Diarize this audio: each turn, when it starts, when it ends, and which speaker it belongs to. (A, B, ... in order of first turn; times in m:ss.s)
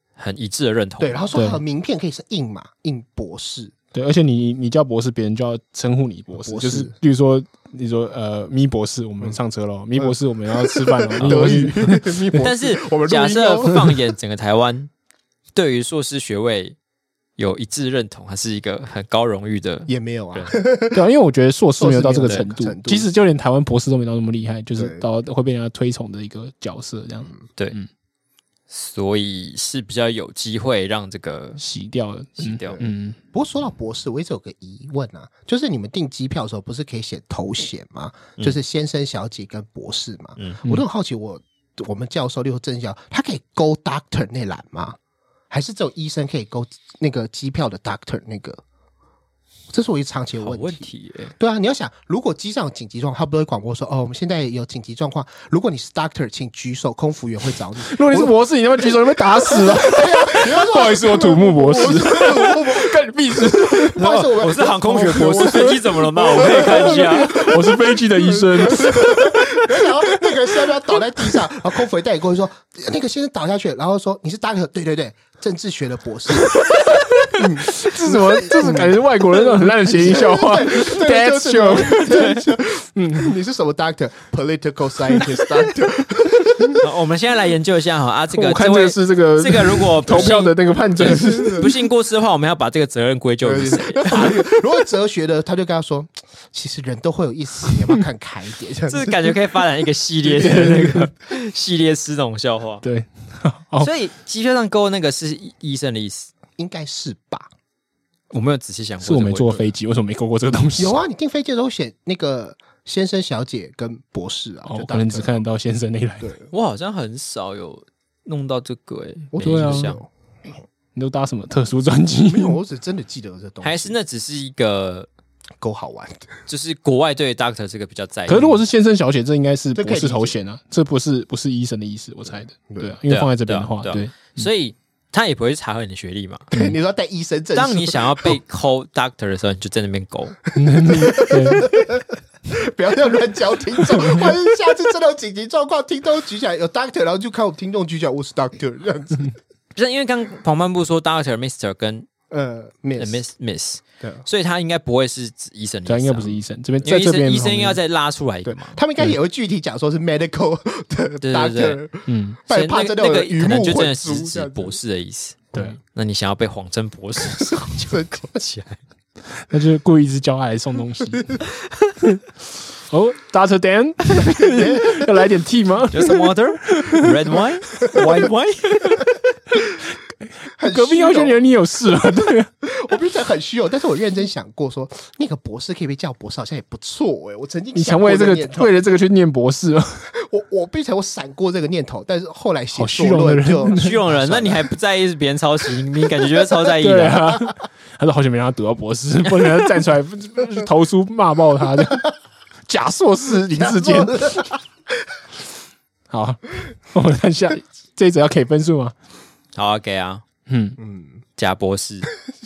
0:00.2-0:01.2 A
0:01.0-0:03.7 B
0:01.3-0:01.6 C
0:03.9-0:12.4 C
0:06.4-0:06.9 B
0:10.0-0:14.0 B
0:11.2-0:11.7 A
0:12.4-0:14.9 A
0:15.5-0:16.8 A
0:17.4-0:20.6 A
0:19.9-0:21.0 B
0:20.9-0:27.9 C
0:21.7-0:23.1 B
0:24.8-0:25.0 B
0:28.7-0:31.6 A
0:31.6-0:33.2 C
0:32.4-0:32.8 A
0:32.7-0:45.0 B
0:45.5-0:48.6 B
0:49.7-1:16.8 B
0:50.4-0:51.3 A
0:57.8-1:04.3 C
1:04.0-1:07.4 A
1:05.3-1:05.8 C
1:06.3-1:11.4 C
1:16.4-1:23.3 C
1:17.3-1:26.8 B
1:22.0-1:22.4 A
1:25.1-1:25.7 C
1:26.4-1:26.8 C
1:26.8-1:34.3 A
1:28.3-1:31.7 C
1:31.0-1:31.7 B
1:33.4-1:39.4 B
1:34.1-1:34.4 C
1:38.9-1:42.8 A
1:40.3-1:40.8 B
1:40.4-1:41.0 C
1:42.8-1:43.9 C
1:43.8-1:46.3 A
1:46.6-1:47.5 B
1:48.3-1:49.6 A
1:49.0-1:51.0 C
1:50.8-1:55.4 B
1:54.6-1:56.3 C
1:56.2-1:56.5 B
1:56.5-2:00.0 A
1:59.3-2:00.1 B
1:59.4-2:00.0 C
2:00.9-2:02.6 C
2:02.2-2:03.9 B
2:03.6-2:05.1 A
2:05.6-2:06.3 B
2:06.5-2:08.6 A
2:08.3-2:14.4 C
2:09.7-2:10.4 B
2:12.7-2:13.0 B
2:13.1-2:16.5 A
2:16.5-2:18.3 B
2:17.5-2:20.4 A
2:20.6-2:21.7 C
2:20.7-2:29.3 B
2:23.9-2:24.3 C
2:29.8-2:32.1 A
2:32.3-2:33.2 B
2:33.0-2:38.8 A
2:35.8-2:37.8 C
2:38.4-2:44.8 B
2:41.2-2:41.8 A
2:42.1-2:42.4 C
2:42.5-2:48.8 A
2:47.4-2:48.4 B
2:49.5-2:51.4 C
2:51.1-2:51.4 B
2:52.9-2:57.4 C
2:54.4-2:55.3 B
2:55.9-2:59.0 A
2:59.6-2:59.8 B
3:00.6-3:01.4 B
3:00.6-3:02.5 C
3:02.6-3:08.7 B
3:07.7-3:10.1 C
3:10.1-3:14.7 B
3:12.7-3:14.0 C
3:13.7-3:17.2 A
3:16.8-3:22.0 C
3:22.7-3:24.4 C
3:23.5-3:24.6 B
3:26.1-3:28.9 C
3:29.5-3:30.2 A
3:30.5-3:30.8 C
3:30.8-3:31.2 B
3:31.4-3:32.1 A